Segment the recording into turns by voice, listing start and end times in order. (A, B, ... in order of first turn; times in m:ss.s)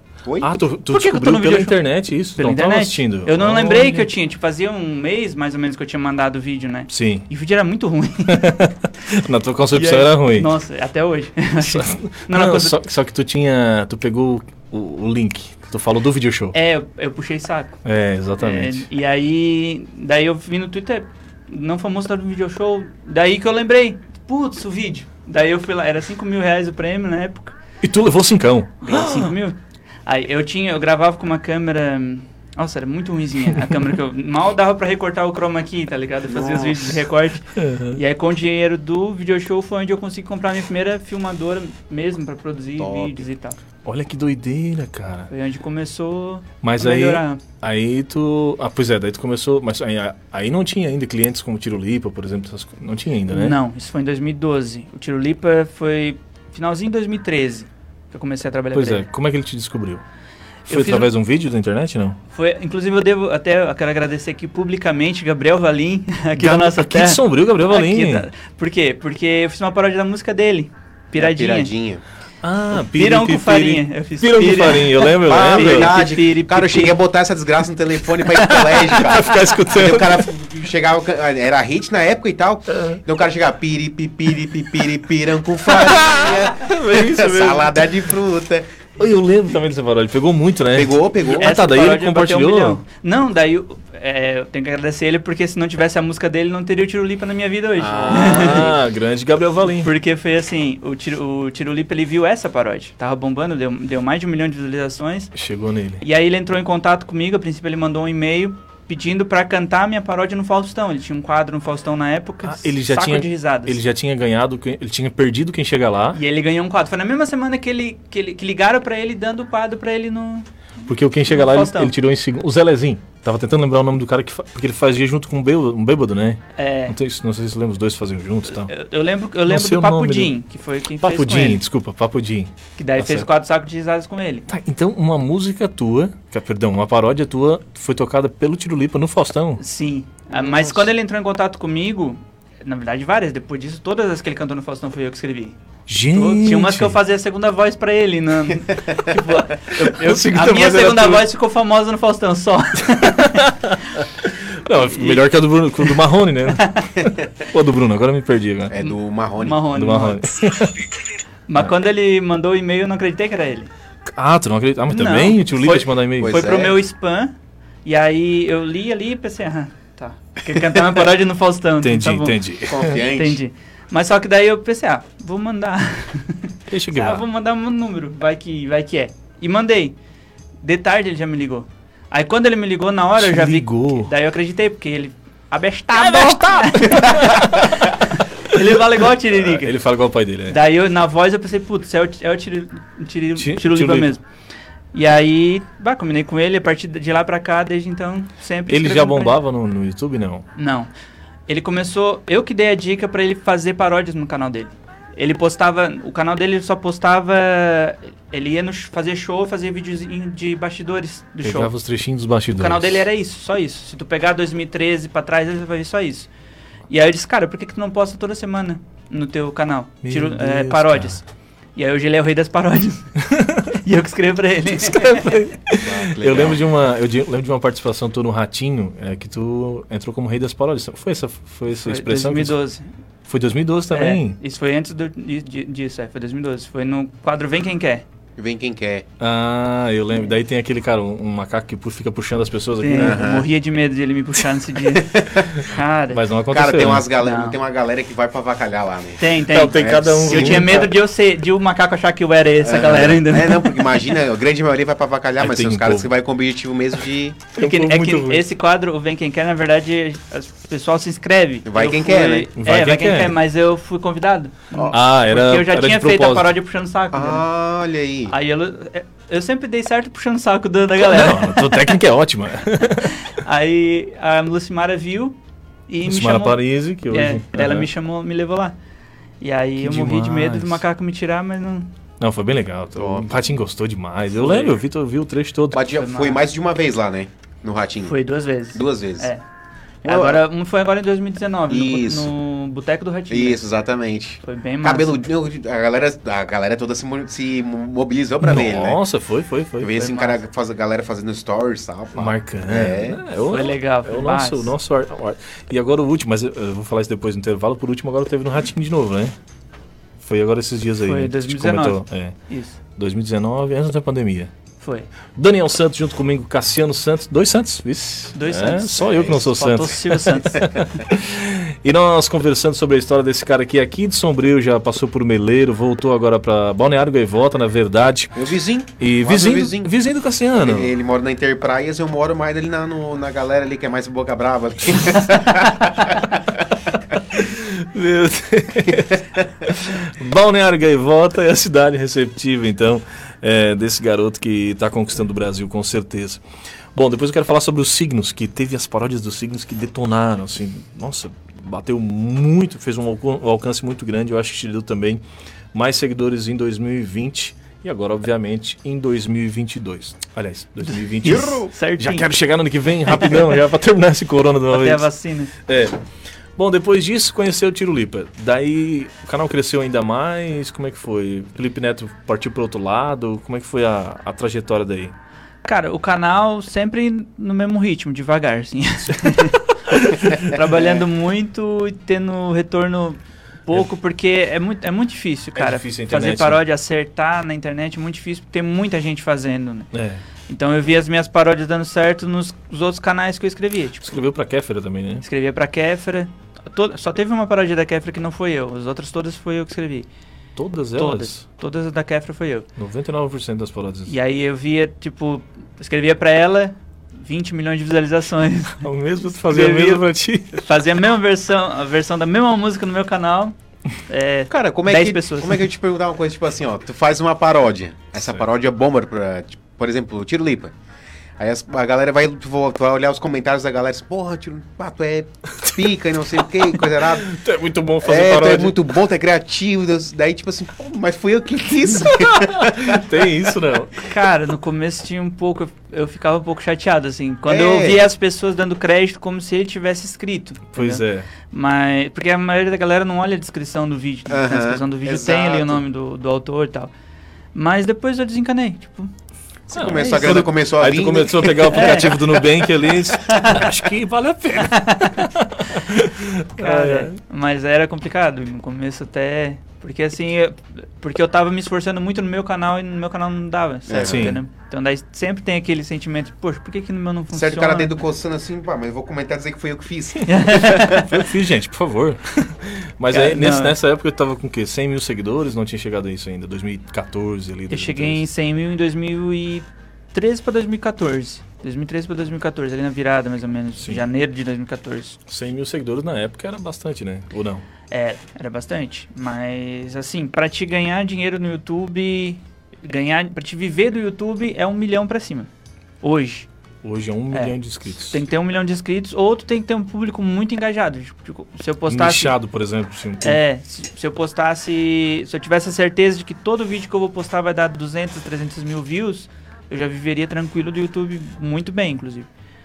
0:00.2-0:00.5 A
0:00.4-0:04.1 B
0:00.9-0:01.8 C
0:02.4-0:08.5 C
0:06.9-0:07.3 B
0:08.3-0:10.5 B
0:09.7-0:12.8 C
0:11.6-0:16.6 B
0:16.5-0:17.8 C
0:17.8-0:18.8 B
0:18.4-0:27.6 C
0:27.8-0:29.3 B
0:28.8-0:43.6 C
0:36.3-0:36.8 A
0:37.5-0:38.0 B
0:42.8-0:43.2 A
0:43.8-0:45.3 B
0:45.3-0:47.4 C
0:46.6-0:53.6 B
0:53.3-0:59.1 C
0:58.7-1:00.0 B
1:00.7-1:01.1 C
1:00.7-1:02.2 B
1:02.3-1:11.7 C
1:06.4-1:08.3 B
1:11.2-1:12.0 A
1:12.4-1:16.0 B
1:13.0-1:17.0 C
1:15.2-1:28.9 A
1:18.4-1:20.3 B
1:22.7-1:23.0 B
1:25.7-1:27.8 B
1:29.0-1:32.8 B
1:30.7-1:31.6 A
1:31.4-1:38.7 C
1:37.8-1:38.8 A
1:38.0-1:39.9 B
1:39.8-1:45.3 C
1:45.3-1:46.0 B
1:46.0-1:53.8 C
1:52.4-1:56.2 B
1:56.1-2:00.5 C
2:00.9-2:08.7 B
2:01.3-2:01.9 C
2:06.6-2:07.0 C
2:08.5-2:11.6 C
2:09.5-2:10.3 B
2:11.0-2:13.3 B
2:12.8-2:14.5 C
2:14.5-2:19.6 B
2:19.6-2:25.6 C
2:20.4-2:20.8 B
2:25.9-2:27.0 B
2:26.1-2:33.6 C
2:29.7-2:31.3 B
2:33.2-2:38.8 B
2:34.8-2:35.2 C
2:36.6-2:36.9 C
2:38.7-2:39.7 A
2:38.8-2:40.3 C
2:39.8-2:40.9 B
2:41.5-2:43.7 C
2:44.1-2:46.5 B
2:44.9-2:47.3 C
2:46.2-2:46.8 A
2:47.8-2:52.4 C
2:51.8-2:53.0 B
2:52.7-2:53.4 A
2:53.1-3:00.0 C
2:56.7-2:57.2 B
3:00.6-3:09.7 C
3:03.2-3:04.1 B
3:06.0-3:07.8 B
3:09.4-3:10.6 B
3:10.5-3:14.2 C
3:13.4-3:14.1 B
3:14.9-3:19.4 C
3:18.7-3:20.5 B
3:20.6-3:20.9 C
3:21.5-3:31.7 C
3:31.4-3:33.1 B
3:32.5-3:36.3 C
3:36.9-3:41.2 C
3:40.0-3:41.2 B
3:41.8-3:43.1 C
3:43.2-3:43.8 B
3:43.7-3:45.3 C
3:44.8-3:52.6 B
3:45.8-3:46.6 A
3:51.7-3:52.8 C
3:53.3-3:54.4 B
3:53.9-3:58.0 C
3:58.4-3:59.1 A
3:59.2-4:03.3 B
4:02.8-4:06.2 C
4:03.0-4:03.5 A
4:05.0-4:05.5 A
4:05.6-4:07.1 B
4:06.5-4:10.9 A
4:07.2-4:07.6 C
4:09.2-4:14.0 C
4:09.5-4:10.9 B
4:12.6-4:17.4 A
4:15.4-4:16.1 B
4:17.6-4:18.4 B
4:17.6-4:27.5 C
4:21.6-4:22.5 A
4:22.6-4:23.4 B
4:24.9-4:26.5 B
4:27.1-4:28.4 A
4:28.3-4:32.0 C
4:31.0-4:33.2 B
4:33.0-4:35.4 C
4:35.9-4:38.8 C
4:36.0-4:37.9 B
4:39.4-4:41.9 C
4:39.8-4:40.8 B
4:42.2-4:45.8 B
4:43.0-4:43.4 A
4:44.4-4:44.8 C
4:45.7-4:48.2 A
4:45.9-4:46.4 C
4:48.0-4:49.4 C
4:48.7-4:49.3 A
4:50.0-4:50.4 A
4:50.0-4:53.7 C
4:51.7-4:52.3 A
4:53.3-4:59.0 A
4:54.4-4:55.2 C
4:58.4-5:00.1 B
4:59.8-5:03.2 A
5:00.0-5:00.4 C
5:02.2-5:09.3 B
5:03.5-5:04.7 C
5:10.2-5:12.4 B
5:11.0-5:12.8 C
5:13.0-5:14.5 B
5:14.8-5:15.1 C
5:15.4-5:28.5 B
5:18.4-5:20.8 C
5:28.4-5:29.9 A
5:29.0-5:30.9 B
5:30.6-5:36.6 A
5:37.3-5:46.4 B
5:46.9-5:55.2 B
5:55.7-6:05.1 B
6:00.8-6:02.3 C
6:03.1-6:03.5 C
6:04.7-6:05.5 C
6:05.6-6:06.0 B
6:06.6-6:15.1 B
6:15.6-6:29.9 C
6:19.9-6:20.4 B
6:25.6-6:26.6 B
6:29.9-6:30.2 B
6:30.5-6:34.1 C
6:34.0-6:35.2 B
6:35.2-6:40.1 C
6:40.6-6:41.4 B
6:41.0-6:42.7 C
6:42.8-6:44.1 B
6:44.1-6:48.9 C
6:48.8-6:50.6 B
6:49.5-6:53.6 C
6:54.1-6:55.7 C
6:54.5-7:00.7 A
7:01.4-7:07.3 A
7:06.9-7:08.8 B
7:08.0-7:13.0 A
7:11.9-7:14.0 B
7:14.0-7:26.9 C
7:17.5-7:18.0 A
7:20.7-7:21.3 B
7:24.3-7:25.8 A
7:27.5-7:29.1 C
7:29.7-7:32.4 A
7:29.7-7:37.1 B
7:29.9-7:30.4 C
7:31.7-7:32.2 C
7:33.2-7:33.8 C
7:34.6-7:35.3 C
7:36.6-7:48.0 C
7:43.9-7:44.4 A
7:44.0-7:44.4 B
7:47.3-7:51.0 A
7:50.3-7:51.2 C
7:50.5-7:58.2 B
7:53.1-7:53.8 C
7:57.7-8:05.2 C
8:05.3-8:07.6 B
8:07.9-8:15.5 C
8:16.0-8:16.5 C
8:16.8-8:18.2 B
8:17.3-8:22.4 C
8:21.9-8:23.4 B
8:23.2-8:32.3 C